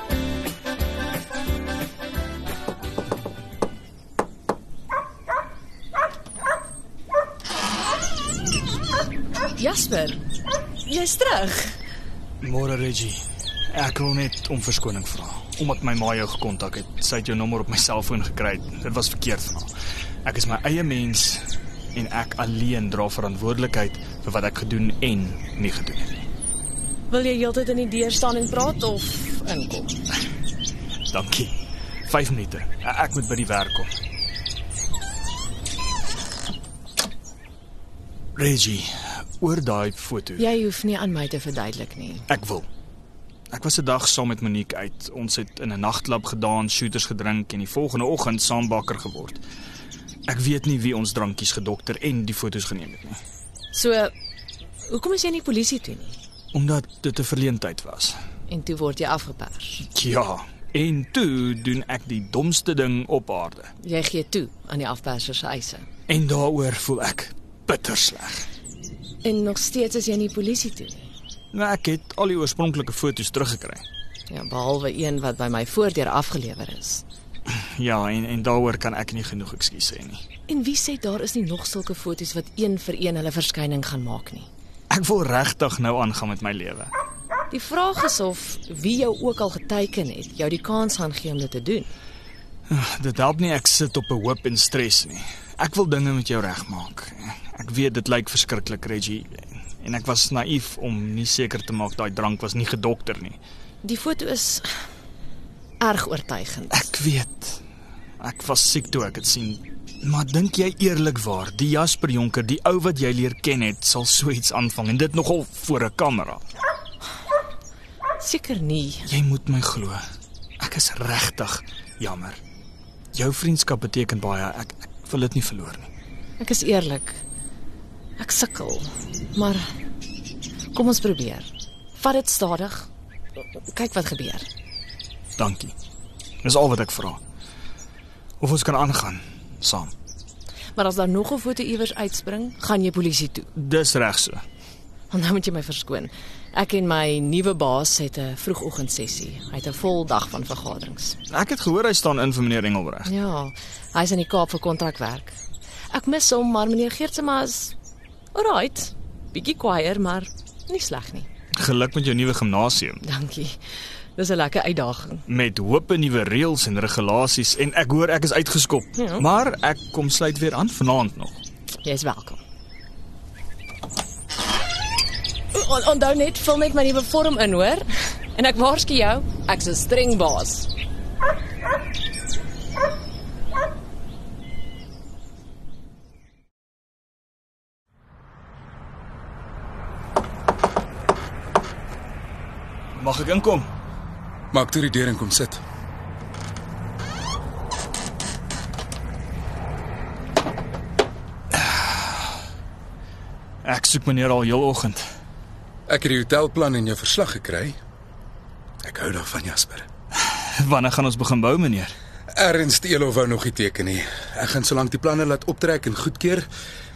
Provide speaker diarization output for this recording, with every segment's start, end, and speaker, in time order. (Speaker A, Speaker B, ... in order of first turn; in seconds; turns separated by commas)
Speaker A: 9.6-10.2, Speaker A: 10.8-11.8, Speaker B: 12.4-19.7, Speaker B: 20.2-26.3, Speaker A: 27.1-30.0, Speaker B: 31.1-31.5, Speaker B: 32.1-33.9, Speaker B: 38.4-40.5, Speaker A: 40.4-42.3, Speaker B: 42.3-42.7, Speaker B: 43.5-49.4, Speaker B: 50.3-53.2, Speaker A: 53.7-54.1, Speaker A: 54.9-56.2, Speaker B: 56.5-58.2, Speaker A: 58.5-59.8, Speaker B: 59.9-63.7, Speaker A: 63.8-65.9, Speaker B: 66.1-68.5, Speaker A: 69.2-71.1, Speaker B: 71.5-73.8, Speaker A: 74.3-77.0, Speaker B: 77.5-80.2, Speaker A: 80.5-84.5, Speaker B: 84.9-86.9, Speaker A: 87.5-91.9, Speaker B: 92.7-103.4, Speaker A: 103.8-104.7, Speaker A: 105.8-106.8, Speaker B: 106.7-107.6, Speaker B: 108.2-116.4, Speaker A: 118.2-119.1, Speaker B: 119.1-120.0, Speaker B: 120.6-122.4, Speaker B: 123.1-125.9, Speaker A: 126.4-127.2, Speaker A: 128.2-129.7, Speaker A: 130.7-132.9, Speaker A: 133.6-134.5, Speaker B: 135.4-135.7, Speaker B: 136.4-137.2, Speaker B: 138.4-139.9, Speaker A: 140.8-143.5, Speaker B: 143.6-144.4, Speaker A: 145.1-151.2, Speaker B: 151.3-153.1, Speaker A: 153.1-155.4, Speaker A: 155.9-157.7, Speaker A: 158.3-161.3, Speaker B: 161.6-163.0, Speaker A: 163.0-163.6, Speaker A: 164.2-165.2, Speaker B: 165.3-171.4, Speaker A: 169.0-169.2, Speaker A: 171.8-172.4, Speaker A: 175.5-180.7, Speaker B: 192.9-193.7, Speaker C: 194.5-195.6, Speaker B: 201.5-202.1, Speaker B: 203.6-205.0, Speaker C: 205.9-207.8, Speaker C: 208.8-209.9, Speaker B: 210.6-211.9, Speaker C: 212.3-216.5